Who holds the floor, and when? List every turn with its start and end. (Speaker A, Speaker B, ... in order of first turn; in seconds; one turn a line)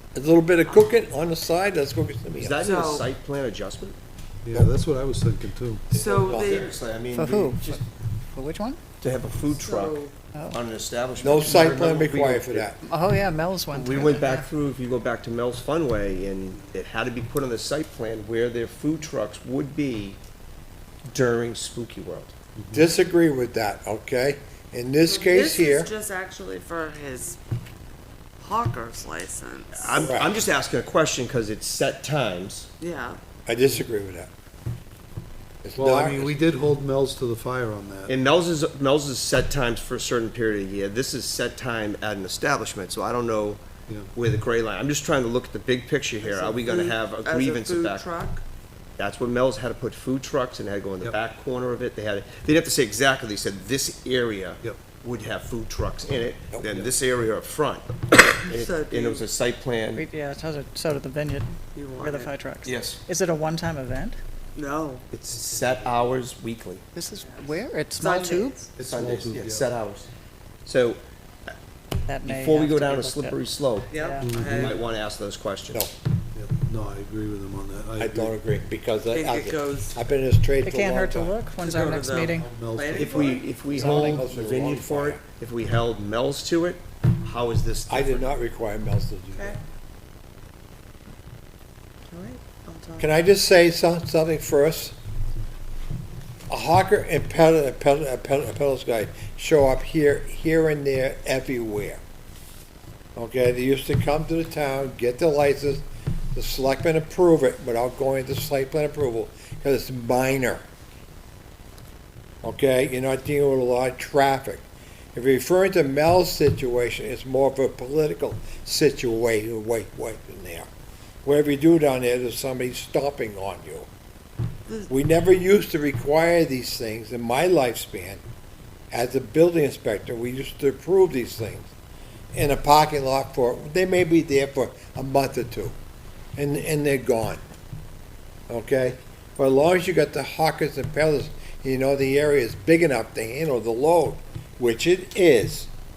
Speaker A: 0.1-2.6
Speaker B: 2.4-4.0
Speaker C: 2.6-3.1
Speaker D: 4.4-5.9
Speaker C: 5.9-6.8
Speaker B: 5.9-7.8
Speaker E: 7.1-7.8
Speaker E: 8.3-8.8
Speaker B: 9.0-12.7
Speaker C: 9.5-10.1
Speaker E: 10.3-10.6
Speaker A: 11.2-12.8
Speaker E: 11.4-11.7
Speaker E: 12.8-14.5
Speaker B: 13.7-20.2
Speaker B: 21.1-22.3
Speaker D: 22.6-22.9
Speaker A: 22.7-25.9
Speaker C: 25.1-27.4
Speaker C: 28.4-30.1
Speaker B: 29.7-32.7
Speaker A: 30.0-30.3
Speaker C: 32.8-33.2
Speaker A: 33.5-34.3
Speaker A: 35.6-36.4
Speaker D: 35.7-38.1
Speaker B: 38.1-43.6
Speaker B: 44.1-48.0
Speaker C: 46.2-48.4
Speaker B: 49.0-60.0
Speaker C: 58.5-59.3
Speaker E: 59.9-64.2
Speaker C: 61.7-62.3
Speaker B: 62.6-63.0
Speaker C: 64.5-65.0
Speaker B: 65.1-66.8
Speaker E: 66.9-68.7
Speaker C: 67.2-68.7
Speaker D: 68.7-69.7
Speaker B: 68.8-70.1
Speaker B: 70.7-71.0
Speaker E: 72.1-73.4
Speaker B: 72.2-73.9
Speaker C: 73.9-74.8
Speaker E: 73.9-74.3
Speaker D: 74.2-74.8
Speaker B: 74.4-75.8
Speaker D: 76.3-78.3
Speaker A: 78.0-81.3
Speaker C: 79.1-80.0
Speaker E: 80.6-82.5
Speaker C: 81.6-83.5
Speaker D: 82.3-84.2
Speaker B: 82.9-88.3
Speaker A: 83.7-85.2
Speaker A: 87.9-89.6
Speaker C: 92.1-93.1
Speaker A: 93.0-95.0
Speaker A: 96.5-102.0
Speaker A: 103.1-110.6
Speaker A: 112.4-120.7
Speaker A: 121.2-123.9
Speaker A: 124.9-128.2
Speaker A: 128.9-131.7
Speaker A: 132.3-135.7
Speaker A: 136.3-137.4
Speaker A: 138.5-145.7